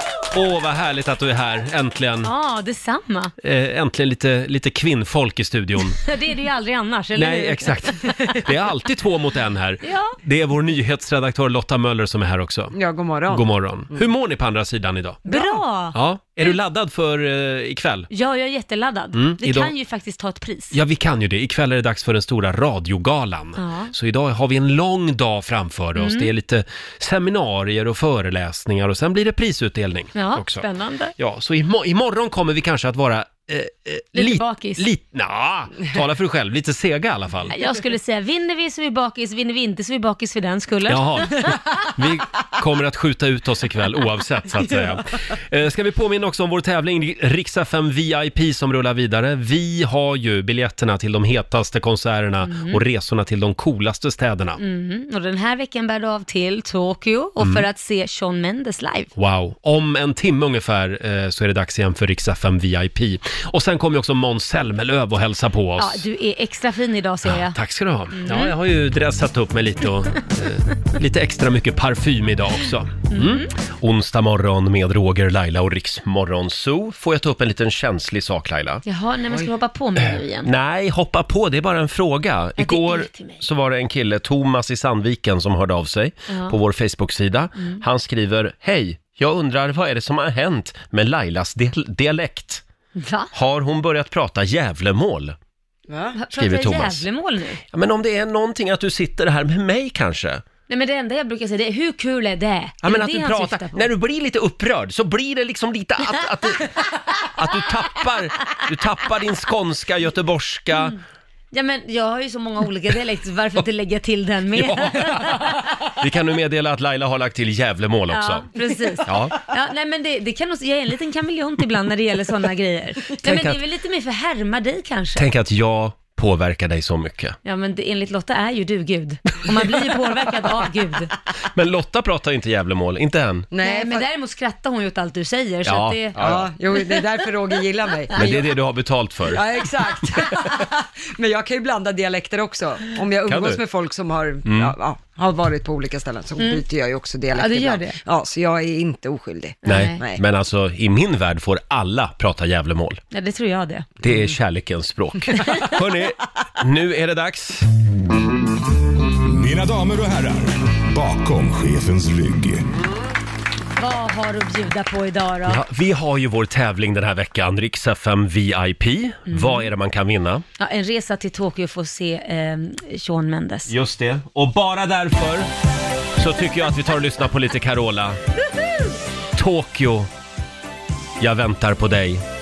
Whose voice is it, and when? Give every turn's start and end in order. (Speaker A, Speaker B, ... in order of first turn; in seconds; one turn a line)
Speaker A: 0.3-2.3
Speaker B: 2.2-3.3
Speaker A: 3.4-6.0
Speaker B: 5.9-8.4
Speaker A: 7.2-12.8
Speaker B: 9.8-10.2
Speaker C: 12.7-14.0
Speaker A: 13.3-15.2
Speaker C: 15.3-15.6
Speaker B: 15.3-16.6
Speaker A: 15.9-18.1
Speaker B: 18.1-20.8
Speaker A: 19.1-19.7
Speaker A: 20.7-30.6
Speaker B: 23.6-23.9
Speaker B: 25.9-26.3
Speaker B: 30.1-31.1
Speaker A: 31.2-37.5
Speaker B: 34.1-34.9
Speaker B: 37.5-41.9
Speaker A: 40.9-54.6
Speaker B: 52.4-52.8
Speaker B: 54.6-59.1
Speaker A: 57.4-57.6
Speaker A: 59.2-66.1
Speaker B: 65.8-67.6
Speaker A: 67.2-78.8
Speaker B: 68.1-68.6
Speaker B: 73.1-73.5
Speaker B: 78.8-80.5
Speaker A: 80.0-92.6
Speaker B: 82.6-83.4
Speaker B: 86.3-86.6
Speaker B: 93.0-93.3
Speaker A: 93.3-95.4
Speaker C: 95.9-96.2
Speaker B: 96.2-97.6
Speaker A: 96.3-97.0
Speaker A: 97.7-100.4
Speaker B: 100.7-103.9
Speaker A: 102.8-106.7
Speaker B: 106.8-107.1
Speaker A: 107.3-110.9
Speaker B: 110.7-111.0
Speaker B: 111.5-115.7
Speaker A: 114.6-118.5
Speaker B: 118.1-125.3
Speaker A: 119.0-119.4
Speaker A: 123.2-123.6
Speaker A: 125.2-127.4
Speaker B: 127.4-131.1
Speaker A: 131.6-133.5
Speaker C: 133.5-134.1
Speaker B: 133.6-136.3
Speaker A: 135.7-136.5
Speaker C: 136.2-138.4
Speaker B: 138.2-138.4
Speaker A: 138.2-139.4
Speaker C: 139.3-150.2
Speaker A: 143.3-143.6
Speaker A: 144.4-144.7
Speaker B: 146.4-146.7
Speaker B: 147.3-148.0
Speaker B: 149.7-150.0
Speaker A: 149.7-153.0
Speaker B: 153.1-153.9
Speaker A: 154.0-157.7
Speaker D: 159.3-162.7
Speaker B: 163.8-165.6
Speaker A: 165.5-170.4
Speaker B: 169.3-169.7
Speaker B: 170.6-173.7
Speaker A: 173.7-175.5
Speaker A: 176.2-178.2
Speaker A: 179.3-180.1
Speaker A: 181.2-182.2